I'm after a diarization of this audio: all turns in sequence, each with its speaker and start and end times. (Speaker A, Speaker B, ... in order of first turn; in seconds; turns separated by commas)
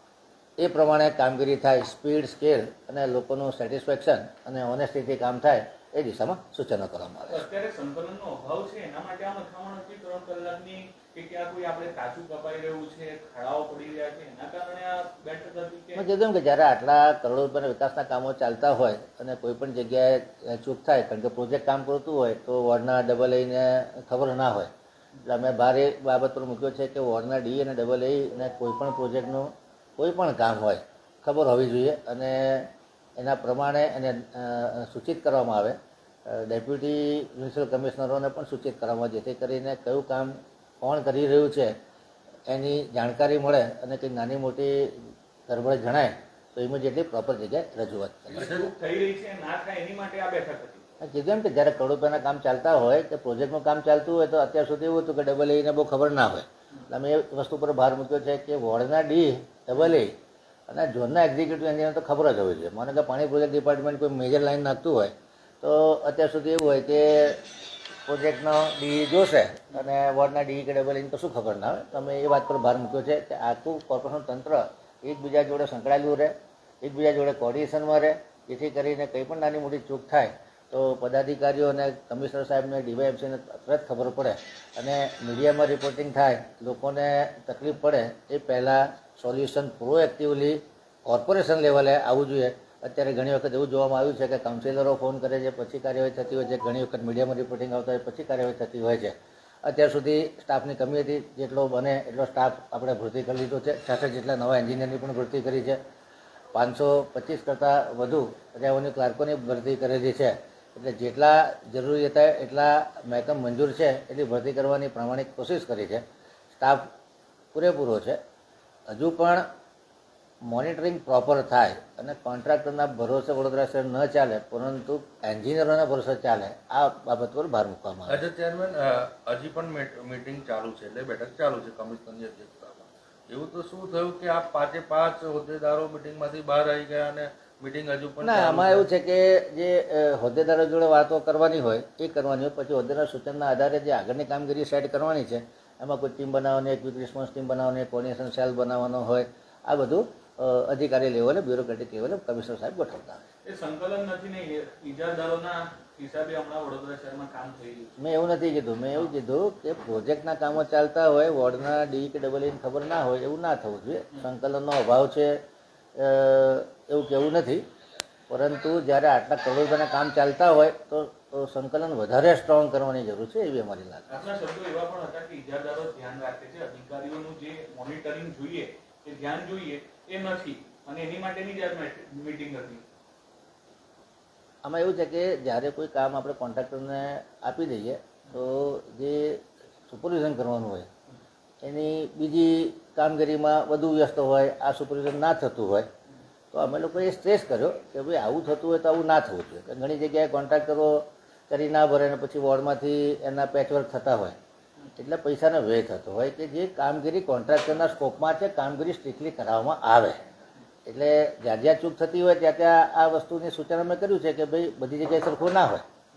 Speaker A: 0.6-7.5, Speaker B: 7.3-16.1, Speaker A: 15.9-24.7, Speaker A: 25.2-41.7, Speaker A: 42.5-48.5, Speaker B: 48.4-50.9, Speaker C: 48.4-48.7, Speaker A: 51.0-60.1, Speaker A: 60.7-67.5, Speaker A: 68.0-105.8, Speaker A: 106.5-116.0, Speaker A: 116.6-116.9, Speaker A: 117.5-118.2, Speaker A: 118.9-119.5, Speaker A: 120.4-128.2, Speaker C: 128.1-138.8, Speaker A: 138.2-153.2, Speaker B: 153.4-157.9, Speaker A: 158.0-165.4, Speaker A: 166.0-167.6, Speaker A: 168.3-174.2, Speaker B: 174.1-182.8, Speaker A: 184.6-190.9, Speaker A: 191.6-195.9, Speaker A: 196.5-204.4, Speaker A: 205.0-210.2, Speaker A: 210.8-215.8